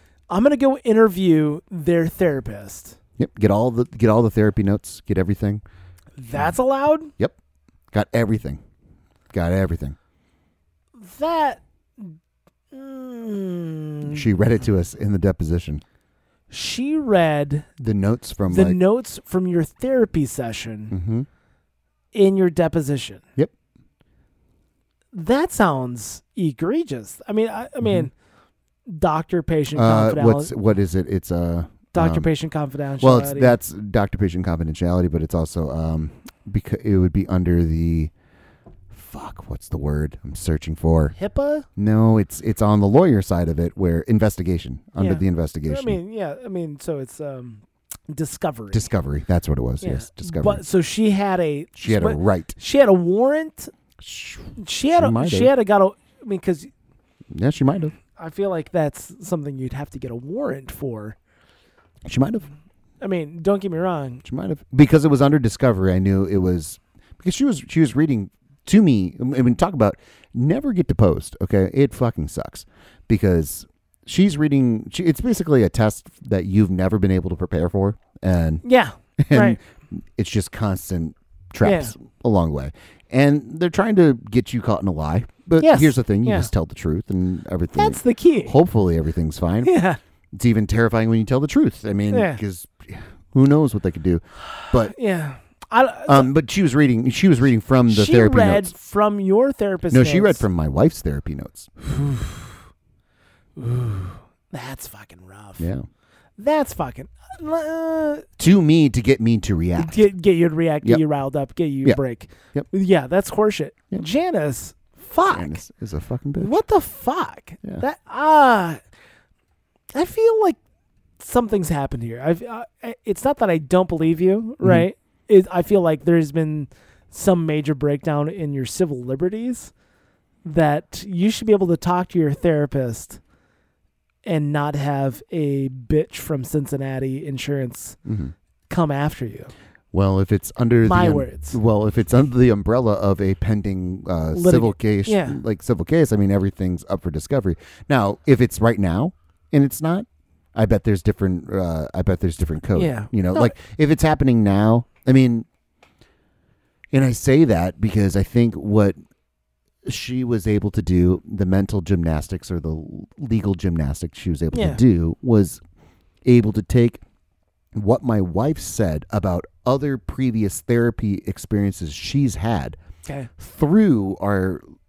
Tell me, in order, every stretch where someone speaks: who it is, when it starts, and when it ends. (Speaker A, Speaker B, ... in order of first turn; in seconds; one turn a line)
Speaker A: 0.3-3.0
Speaker B: 3.2-5.6
Speaker A: 6.2-7.1
Speaker B: 7.9-8.6
Speaker B: 9.3-10.0
Speaker A: 11.0-12.2
Speaker A: 12.7-14.3
Speaker B: 14.0-15.8
Speaker A: 16.5-17.7
Speaker B: 17.8-18.8
Speaker A: 18.5-20.9
Speaker B: 20.9-21.3
Speaker A: 22.1-23.2
Speaker A: 25.1-28.1
Speaker B: 27.8-28.1
Speaker A: 28.9-30.5
Speaker B: 29.7-32.3
Speaker A: 31.9-33.6
Speaker B: 33.0-38.1
Speaker B: 38.9-41.2
Speaker A: 41.2-41.7
Speaker B: 41.8-46.0
Speaker A: 45.0-48.9
Speaker B: 48.7-50.6
Speaker A: 49.8-53.7
Speaker B: 51.8-52.5
Speaker B: 54.0-55.5
Speaker A: 54.6-56.7
Speaker B: 57.3-58.0
Speaker A: 58.2-61.2
Speaker B: 62.1-62.5
Speaker A: 63.0-64.2
Speaker B: 64.2-78.6
Speaker A: 78.6-79.6
Speaker B: 79.2-89.7
Speaker A: 81.6-81.9
Speaker A: 85.6-86.5
Speaker A: 87.8-88.6
Speaker A: 89.6-90.0
Speaker B: 90.3-94.9
Speaker A: 92.1-92.4
Speaker A: 94.6-96.3
Speaker B: 96.1-98.7
Speaker A: 97.9-100.5
Speaker B: 99.9-101.7
Speaker A: 101.9-102.6
Speaker A: 103.6-105.7
Speaker B: 105.6-105.9
Speaker A: 106.4-108.3
Speaker B: 108.4-110.1
Speaker A: 109.8-115.6
Speaker B: 115.3-116.5
Speaker A: 116.4-118.8
Speaker A: 119.9-120.6
Speaker A: 121.2-129.7
Speaker A: 130.4-133.2
Speaker A: 134.2-138.0
Speaker B: 138.1-138.3
Speaker A: 138.7-139.5
Speaker B: 139.9-155.5
Speaker A: 140.8-141.6
Speaker A: 144.3-145.4
Speaker A: 152.7-153.6
Speaker B: 156.9-159.0
Speaker B: 159.8-165.6
Speaker A: 164.5-164.8
Speaker B: 166.2-167.0
Speaker B: 167.8-172.8
Speaker A: 173.1-173.3
Speaker B: 173.4-174.6